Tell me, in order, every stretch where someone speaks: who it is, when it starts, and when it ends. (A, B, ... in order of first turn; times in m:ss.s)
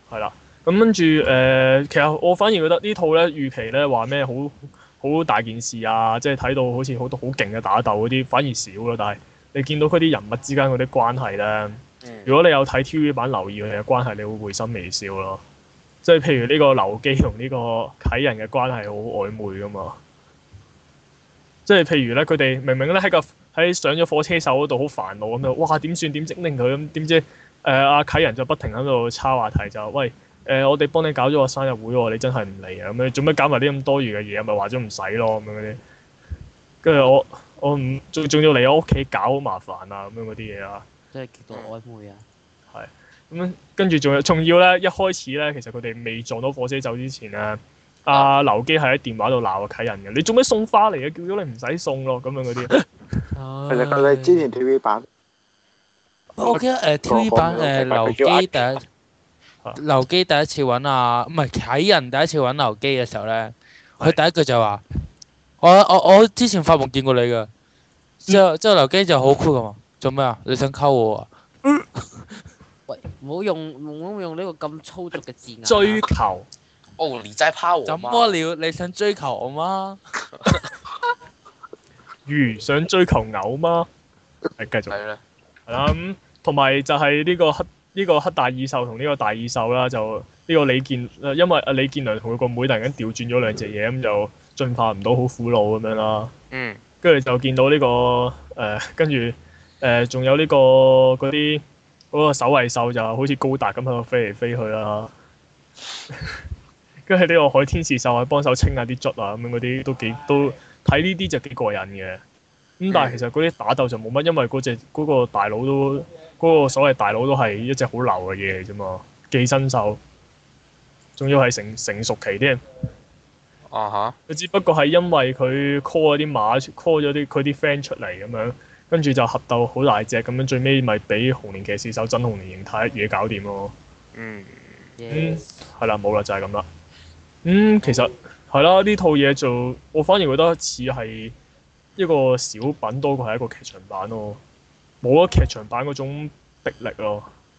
0:00.1-0:15.4 A
0:12.0-0:12.3 B
0:16.0-0:20.0 A
0:21.7-0:35.8 A
0:36.8-0:40.8 A
0:41.1-0:42.2 C
0:42.7-0:52.8 A
0:53.3-0:54.6 D
0:53.7-0:55.1 E
0:56.4-0:58.8 D
0:56.4-0:58.5 E
0:59.8-1:04.8 D
1:05.6-1:07.5 D
1:08.2-1:12.4 D
1:12.9-1:16.0 C
1:15.6-1:16.5 A
1:17.0-1:18.4 B
1:17.9-1:20.0 D
1:22.3-1:23.9 A
1:24.6-1:25.0 A
1:24.9-1:25.2 B
1:25.7-1:36.3 A
1:36.5-1:36.8 B
1:37.0-1:45.1 A
1:46.1-1:46.4 A
1:47.1-1:52.2 A
1:52.8-2:00.0 A
1:52.9-1:53.2 B
2:01.2-2:02.6 A
2:03.7-2:04.2 B
2:04.3-2:13.7 A
2:14.2-2:14.9 B
2:15.0-2:15.4 C
2:15.1-2:16.7 A
2:17.4-2:21.4 A
2:22.0-2:24.4 A
2:25.0-2:27.3 A